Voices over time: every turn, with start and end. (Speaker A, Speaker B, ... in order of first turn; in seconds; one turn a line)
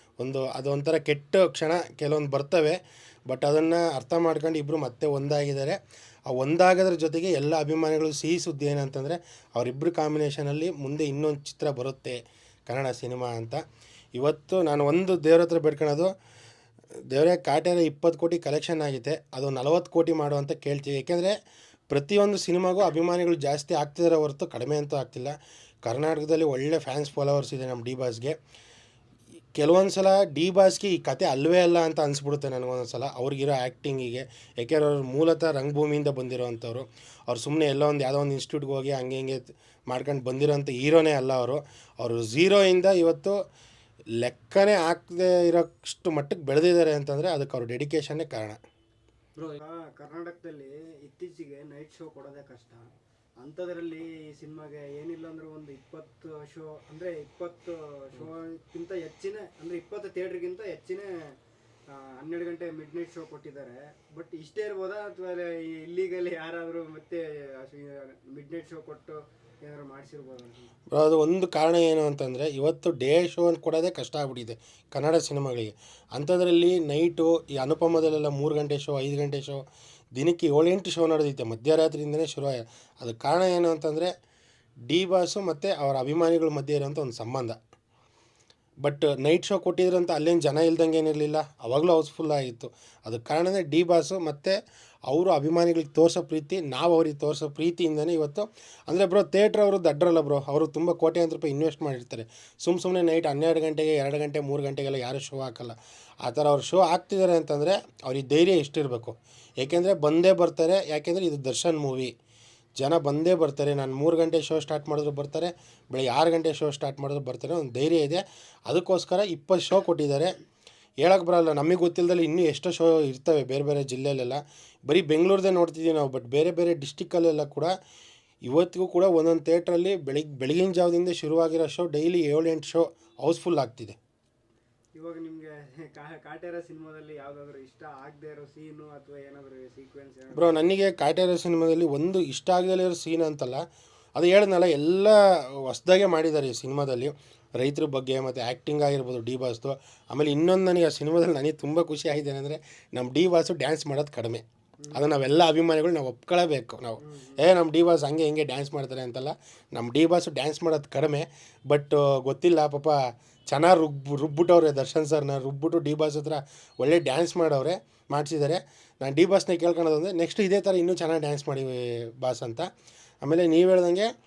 Speaker A: 0.2-5.8
Speaker A: 6.3-13.6
Speaker A: 14.2-16.1
Speaker A: 17.1-21.4
Speaker A: 21.9-28.4
Speaker A: 29.6-43.4
Speaker A: 44.2-48.6
Speaker B: 49.6-52.8
Speaker B: 53.4-61.1
Speaker B: 61.9-70.7
Speaker A: 70.9-79.6
Speaker A: 80.2-84.1
Speaker A: 84.9-87.6
Speaker A: 88.8-94.6
Speaker A: 95.1-112.1
Speaker A: 112.8-120.3
Speaker A: 121.0-127.7
Speaker A: 128.5-134.0
Speaker B: 135.0-140.7
Speaker A: 140.3-143.6
Speaker A: 144.2-172.7
Speaker B: 157.0-157.4
Speaker A: 173.2-174.1